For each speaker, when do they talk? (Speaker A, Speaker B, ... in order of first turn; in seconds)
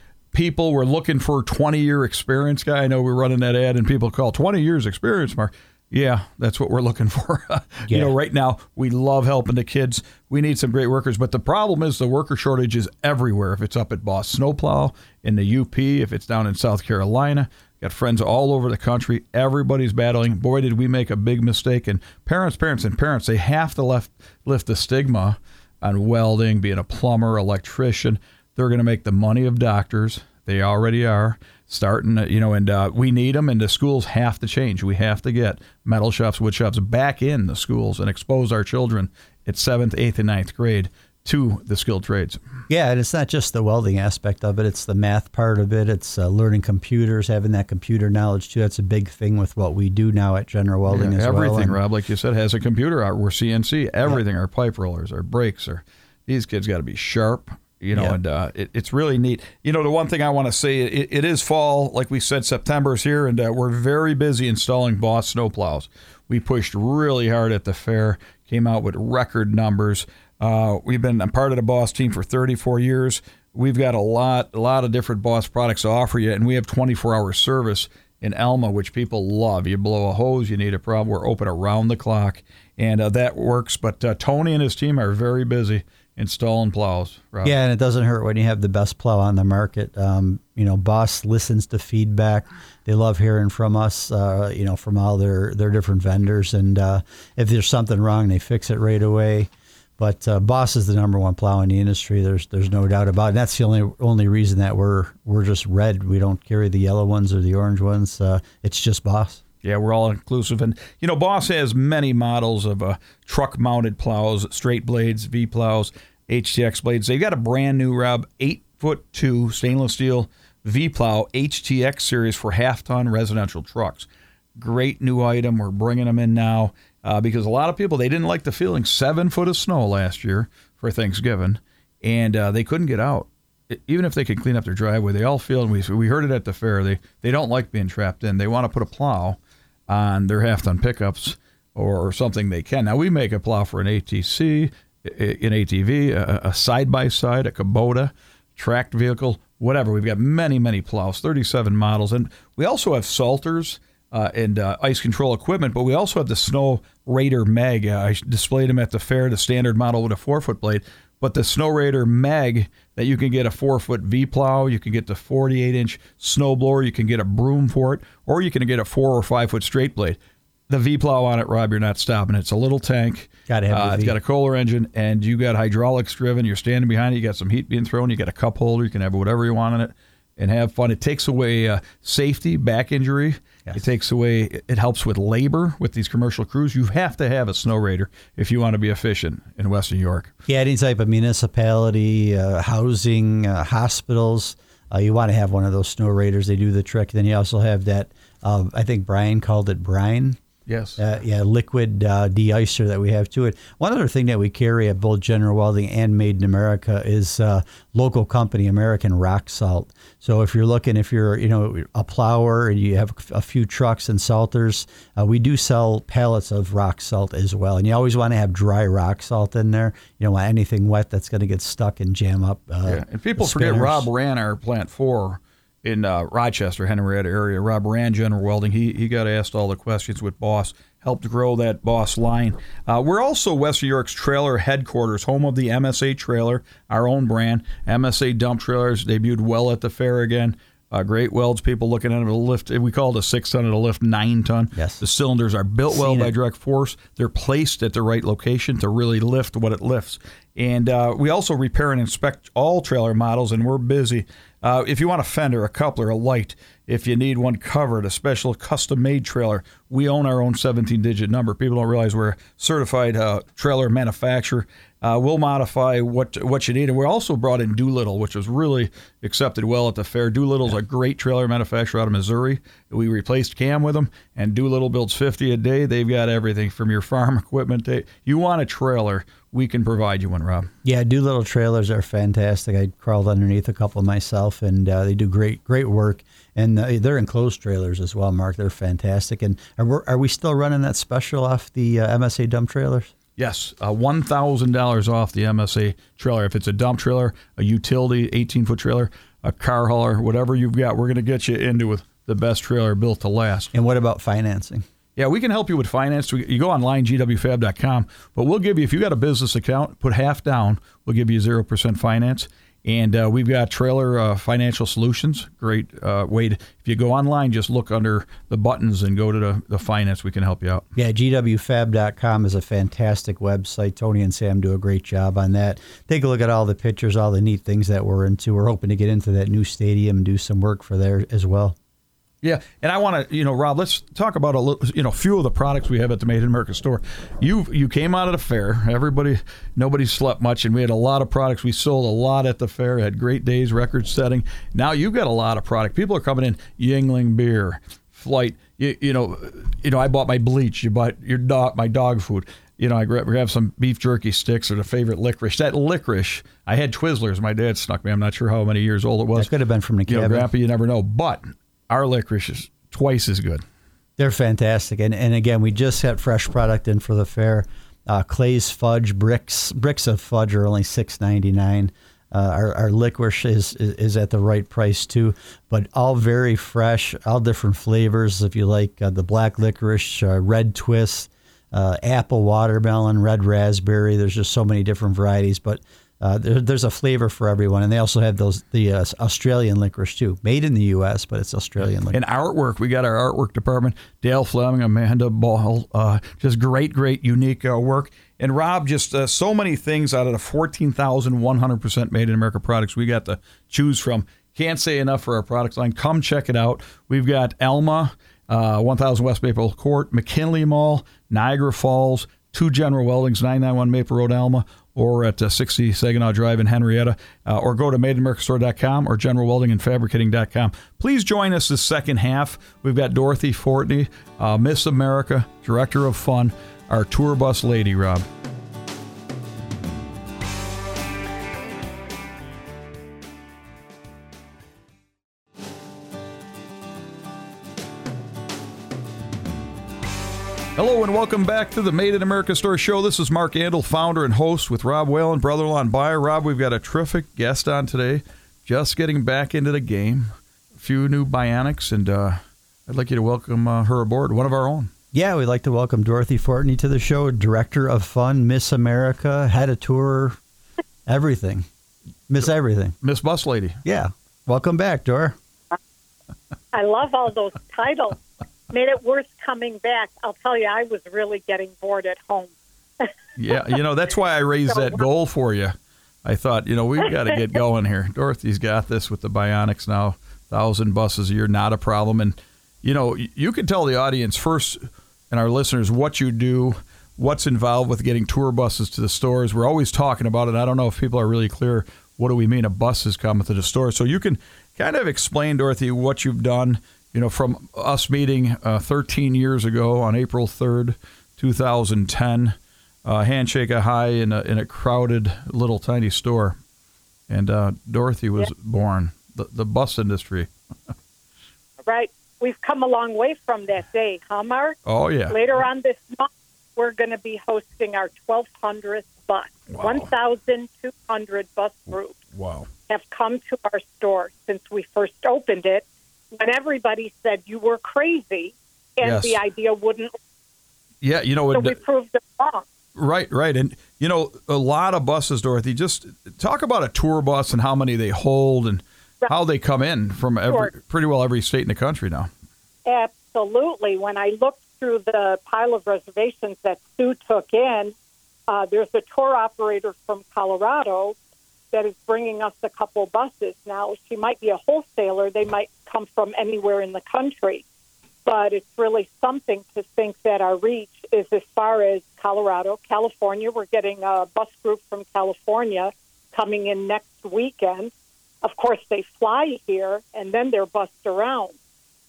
Speaker A: 0.3-42.4, 50.9-87.5, 109.6-170.2, 170.7-190.3, 200.7-201.0, 222.9-280.7, 293.4-303.7, 305.2-320.8, 332.4-359.5, 360.1-363.6, 392.1-428.3, 440.8-454.9, 463.0-463.8, 473.4-475.7, 476.2-506.6, 507.3-510.5, 514.9-515.4, 519.7-520.1, 522.3-522.7, 529.0-529.4, 531.0-531.8, 533.0-542.3
Speaker B: 42.7-51.8, 87.4-109.4, 173.5-174.2, 190.5-200.4, 201.0-224.1, 244.8-245.0, 245.9-246.3, 280.8-293.1, 303.7-304.8, 321.0-331.8, 359.4-360.5, 364.2-392.2, 455.1-460.4, 461.1-461.7, 462.3-462.9, 463.9-465.4
Speaker C: 466.7-473.1, 511.9-514.8, 515.3-522.2, 522.9-530.1, 531.5-532.7, 542.9-547.9, 548.5-551.2, 551.7-557.6, 558.3-567.9, 568.4-571.6